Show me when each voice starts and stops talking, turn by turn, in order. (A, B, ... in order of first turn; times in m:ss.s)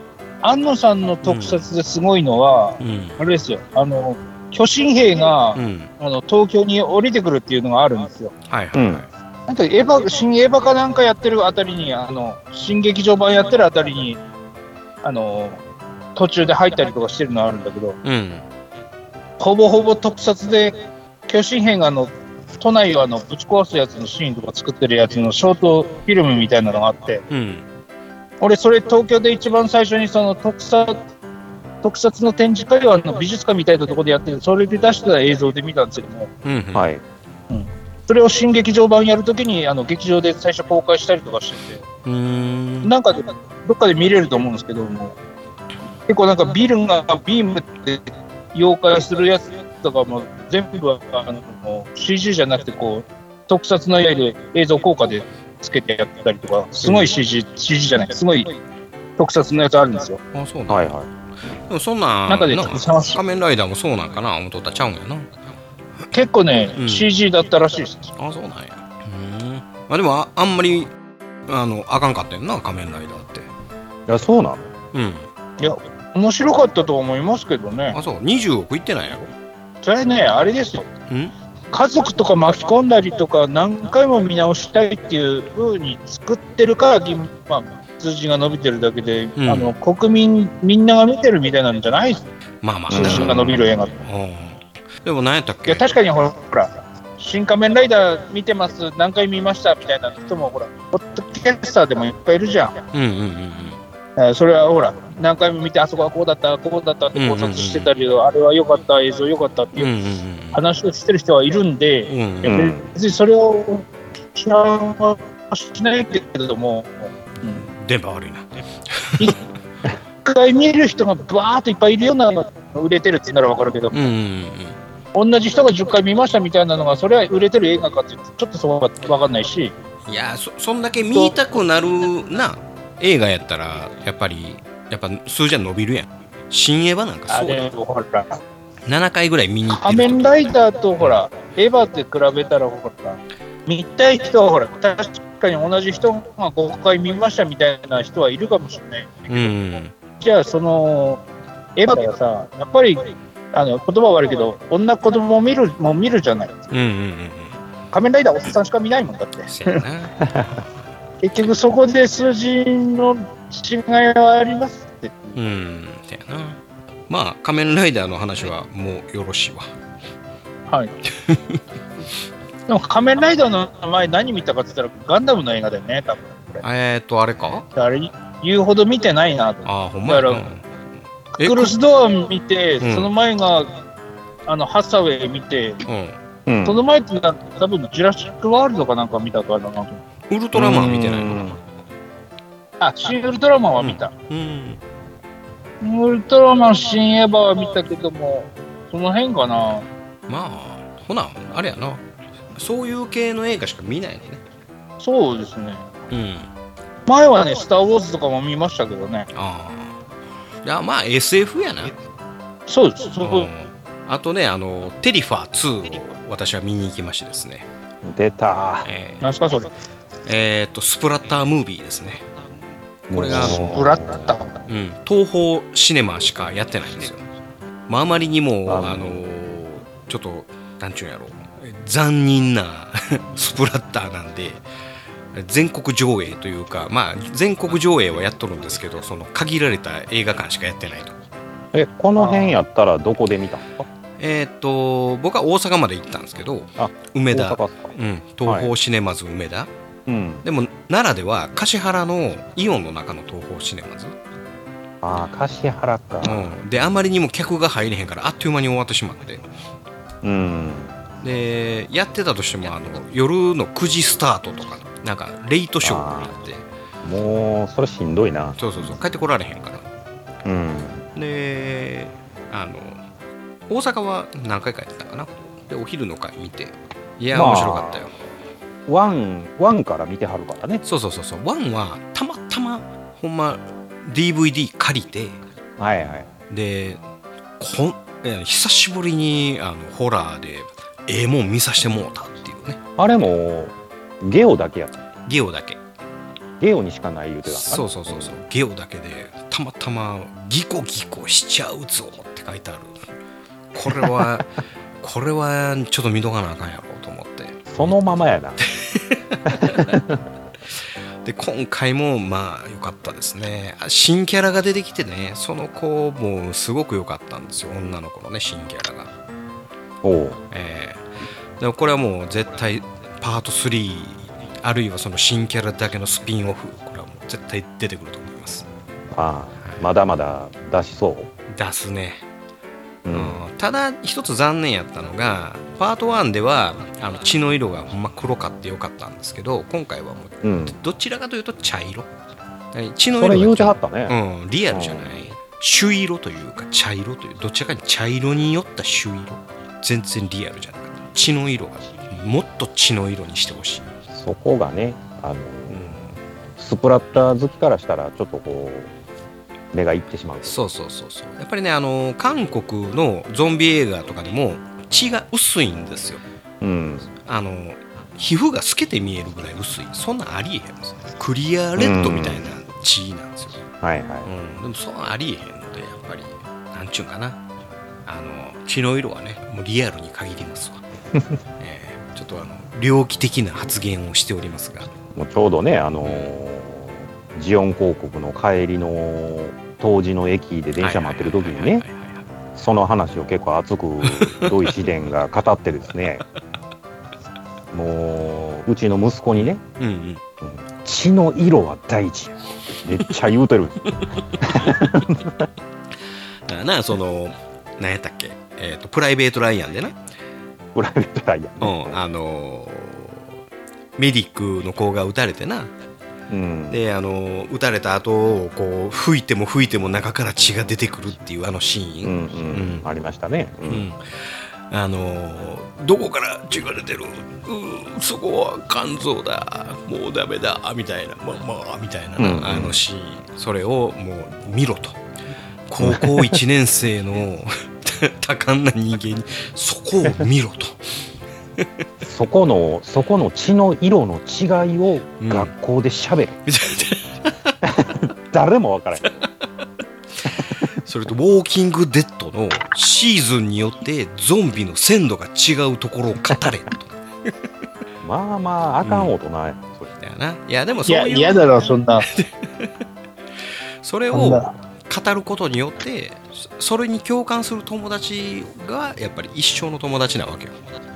0:00.4-0:08.3 A
0:01.2-0:01.6 B
0:02.8-0:03.2 B
0:05.6-0:05.9 B
0:08.5-0:09.1 B
0:08.7-0:09.0 C
0:09.5-0:14.2 A
0:15.0-0:15.6 A
0:16.2-0:18.0 A
0:18.0-0:18.4 B
0:19.4-0:20.8 A
0:21.3-0:27.2 A
0:27.3-0:27.6 B
0:28.4-0:31.0 A
0:31.8-0:36.3 A
0:36.4-0:36.9 B
0:36.7-0:37.0 C
0:37.5-0:41.8 A
0:42.0-0:42.9 B
0:42.8-0:45.1 A
0:46.1-0:58.5 A
0:56.8-0:57.1 B
0:59.2-1:00.2 A
1:00.3-1:00.9 B
1:00.7-1:01.1 C
1:01.7-1:05.3 B
1:02.3-1:03.2 A
1:06.1-1:08.1 A
1:06.8-1:07.1 B
1:08.2-1:10.9 B
1:11.5-1:13.5 B
1:14.1-1:14.7 C
1:14.9-1:15.3 B
1:15.6-1:18.0 A
1:17.9-1:19.3 B
1:19.8-1:20.9 A
1:21.7-1:32.2 A
1:29.4-1:29.7 B
1:32.6-1:35.9 B
1:32.9-1:33.6 C
1:32.9-1:33.9 A
1:35.7-1:42.8 A
1:42.9-1:43.8 B
1:44.2-1:49.9 A
1:47.1-1:47.9 B
1:49.7-1:50.6 B
1:50.5-1:57.6 A
1:52.1-1:52.6 B
1:52.4-1:52.9 C
1:57.6-1:59.4 B
2:00.2-2:04.0 A
2:03.9-2:04.8 B
2:05.1-2:09.7 A
2:10.1-2:17.7 B
2:17.3-2:18.4 A
2:18.8-2:21.1 B
2:19.7-2:29.4 A
2:29.3-2:29.9 B
2:30.2-2:31.2 A
2:31.8-2:33.0 A
2:33.5-2:36.7 A
2:36.7-2:37.5 B
2:37.9-2:39.8 A
2:39.5-2:40.2 B
2:40.2-2:40.6 C
2:41.2-2:45.4 A
2:45.3-2:49.7 B
2:50.7-2:50.9 A
2:51.1-2:51.6 B
2:52.7-2:56.6 A
2:56.6-2:57.6 B
2:57.7-3:00.4 A
2:59.6-3:00.7 B
3:01.4-3:01.7 B
3:01.4-3:03.7 A
3:02.8-3:03.1 B
3:04.5-3:05.8 A
3:05.8-3:06.2 B
3:06.4-3:06.8 C
3:06.6-3:10.0 A
3:10.3-3:11.6 B
3:10.5-3:11.6 C
3:12.8-3:14.1 A
3:13.8-3:14.8 B
3:15.8-3:19.9 A
3:20.3-3:22.0 B
3:22.5-3:24.4 B
3:25.0-3:25.8 A
3:26.1-3:26.5 B
3:27.1-3:29.3 A
3:29.3-3:30.0 B
3:30.6-3:31.9 B
3:32.7-3:33.5 A
3:33.2-3:37.7 B
3:38.0-3:38.9 C
3:38.8-3:39.2 B
3:39.2-3:39.7 A
3:40.2-3:42.2 B
3:43.1-3:44.3 C
3:43.1-3:43.8 B
3:43.3-3:44.5 A
3:44.7-3:47.2 B
3:47.9-3:54.6 B
3:48.6-3:49.2 C
3:55.3-4:01.2 B
4:01.7-4:03.9 C
4:02.2-4:02.5 A
4:04.2-4:09.7 B
4:06.8-4:08.7 C
4:10.1-4:10.4 C
4:10.4-4:14.1 B
4:15.0-4:16.5 C
4:16.2-4:19.5 B
4:20.2-4:20.9 C
4:21.2-4:26.6 B
4:25.8-4:26.3 C
4:27.0-4:28.6 C
4:28.6-4:29.8 B
4:30.4-4:31.0 C
4:31.1-4:33.0 B
4:33.7-4:38.2 B
4:37.3-4:38.1 C
4:38.9-4:40.8 C
4:40.8-4:45.4 B
4:45.8-4:46.3 C
4:46.5-4:47.0 B
4:47.6-4:52.8 B
4:53.0-4:55.0 C
4:55.2-4:55.8 B
4:56.6-4:58.4 C
4:57.4-5:03.0 B
5:03.7-5:08.0 B
5:03.9-5:04.4 C
5:07.7-5:08.6 C
5:08.6-5:10.0 B
5:09.5-5:10.2 C
5:10.7-5:19.1 B
5:20.0-5:20.4 C
5:20.5-5:21.1 B
5:21.6-5:28.6 B
5:29.1-5:31.3 C
5:31.5-5:32.2 B
5:33.0-5:33.4 C
5:33.1-5:42.1 B
5:40.4-5:40.8 C
5:42.7-5:53.9 B
5:43.1-5:44.2 C
5:44.7-5:45.2 C
5:54.1-5:55.9 C
5:55.7-5:56.1 B
5:56.6-5:58.9 C
5:59.7-6:00.6 C
6:00.4-6:06.2 B
6:06.6-6:07.1 C
6:07.2-6:13.6 B
6:11.8-6:12.4 C
6:13.8-6:14.3 C
6:14.2-6:17.4 B
6:18.0-6:20.8 B
6:21.6-6:24.9 B
6:25.1-6:31.8 C
6:26.0-6:26.3 B
6:30.8-6:32.2 B
6:32.6-6:36.2 C
6:34.0-6:34.6 B
6:37.7-6:39.6 C
6:39.3-6:40.2 B
6:40.4-6:45.4 C
6:44.4-6:44.8 B
6:46.5-6:49.9 B
6:50.7-6:52.0 C
6:51.6-6:53.3 B
6:54.0-6:55.7 B
6:56.3-6:56.8 C
6:56.7-7:02.8 B
7:02.0-7:03.8 C
7:03.7-7:15.0 B
7:12.2-7:12.8 C
7:15.7-7:20.8 B
7:15.8-7:16.4 C
7:22.0-7:26.4 C
7:25.2-7:25.5 B
7:26.5-7:27.6 B
7:27.6-7:29.1 C
7:30.8-7:36.9 B
7:38.0-7:40.0 C
7:38.8-7:39.1 B
7:40.0-7:42.7 B
7:40.9-7:42.1 A
7:43.8-7:50.6 B
7:44.1-7:44.5 A